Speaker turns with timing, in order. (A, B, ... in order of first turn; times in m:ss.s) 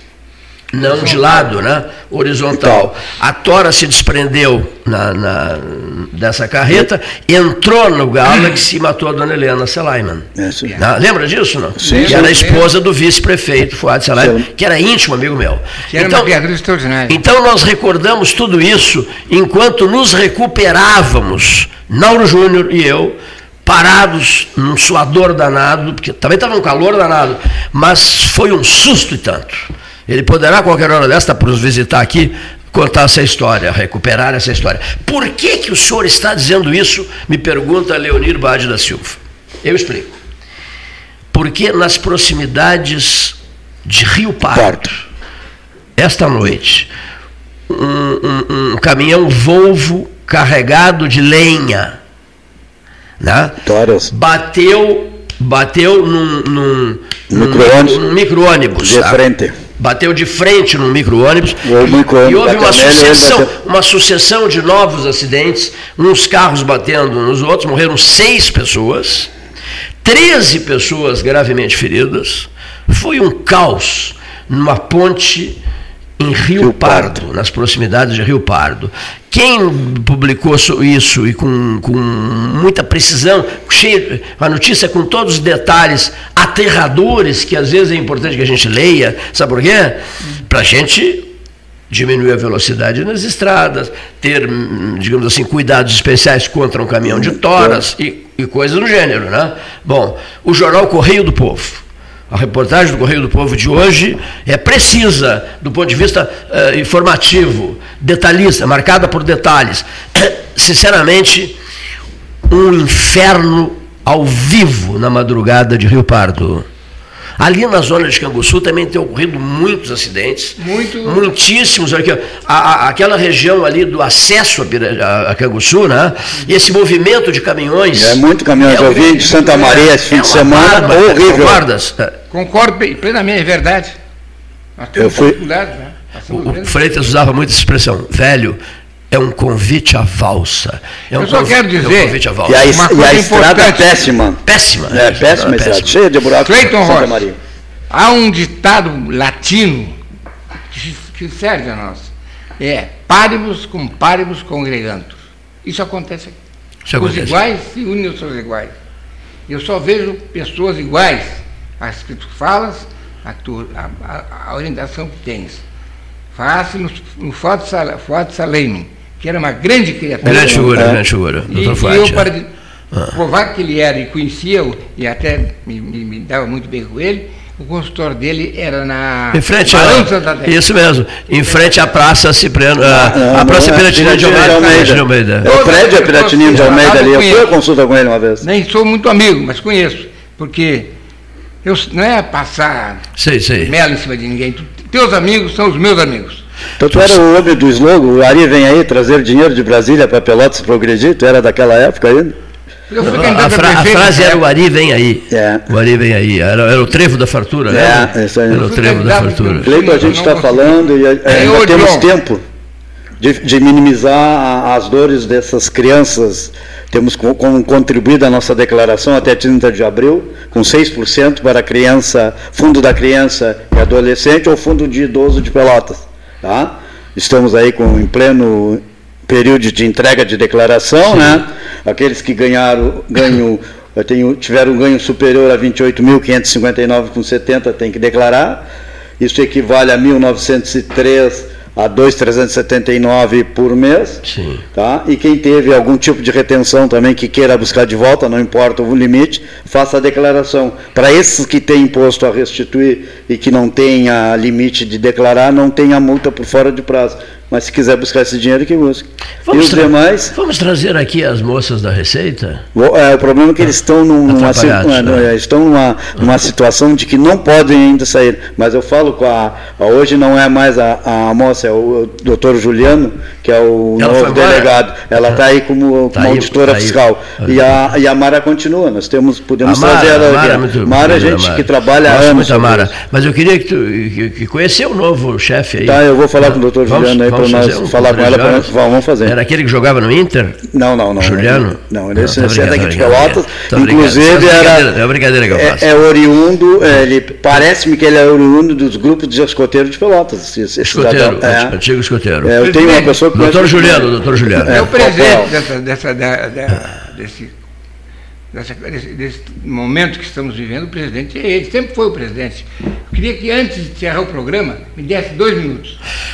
0:00.7-0:16.3 A
0:00.8-0:01.4 B
0:02.6-0:02.8 C
0:10.4-0:10.7 C
0:11.8-0:12.3 C
0:11.8-0:12.7 B
0:14.2-0:14.5 C
0:15.9-0:17.2 B
0:17.1-0:40.2 A
0:41.3-0:45.0 A
0:44.5-0:44.8 C
0:46.0-0:46.9 A
0:47.7-0:52.0 A
0:53.2-0:53.6 A
0:53.6-0:54.1 C
0:54.1-0:59.2 A
0:57.3-0:58.0 C
0:58.8-0:59.6 C
0:59.8-1:09.3 A
1:01.6-1:03.5 C
1:10.0-1:15.6 A
1:16.2-1:31.3 A
1:16.6-1:17.2 C
1:31.9-1:51.6 A
1:37.1-1:37.8 C
1:52.5-1:56.7 A
1:57.4-2:12.2 A
2:00.6-2:01.3 B
2:08.0-2:11.6 C
2:09.3-2:09.9 B
2:12.3-2:14.0 B
2:14.8-2:16.8 B
2:15.0-2:15.4 C
2:16.3-2:18.6 A
2:19.1-2:22.7 A
2:21.2-2:24.0 B
2:22.5-2:27.4 C
2:24.4-2:26.0 A
2:26.4-2:27.2 B
2:27.9-2:30.0 B
2:30.7-2:36.4 B
2:36.9-2:37.4 A
2:37.0-2:38.7 B
2:39.5-2:45.6 B
2:46.3-2:50.9 B
2:50.2-2:51.0 C
2:50.2-2:52.3 A
2:51.5-2:52.5 B
2:53.1-3:00.5 B
2:59.3-3:05.5 A
3:02.9-3:08.4 C
3:05.5-3:07.5 B
3:08.4-3:10.9 B
3:11.6-3:13.0 B
3:13.2-3:13.7 A
3:13.6-3:16.4 B
3:16.8-3:22.4 C
3:16.9-3:17.2 A
3:22.9-3:24.4 B
3:23.0-3:29.8 A
3:25.3-3:25.6 C
3:27.7-3:28.7 C
3:28.5-3:32.1 B
3:29.6-3:32.4 C
3:33.2-3:58.6 C
3:59.2-4:04.2 C
4:04.2-4:04.6 A
4:04.7-4:20.3 C
4:19.5-4:22.6 A
4:22.8-4:42.9 C
4:24.3-4:25.3 A
4:34.0-4:34.7 A
4:36.1-4:37.6 A
4:39.6-4:48.7 A
4:45.8-4:49.4 C
4:49.2-4:50.6 A
4:50.7-4:54.9 C
4:51.2-4:55.9 A
4:55.5-5:01.8 C
5:00.8-5:02.5 A
5:02.4-5:05.5 C
5:02.6-5:03.2 B
5:03.3-5:04.8 A
5:04.7-5:07.5 B
5:08.5-5:16.0 B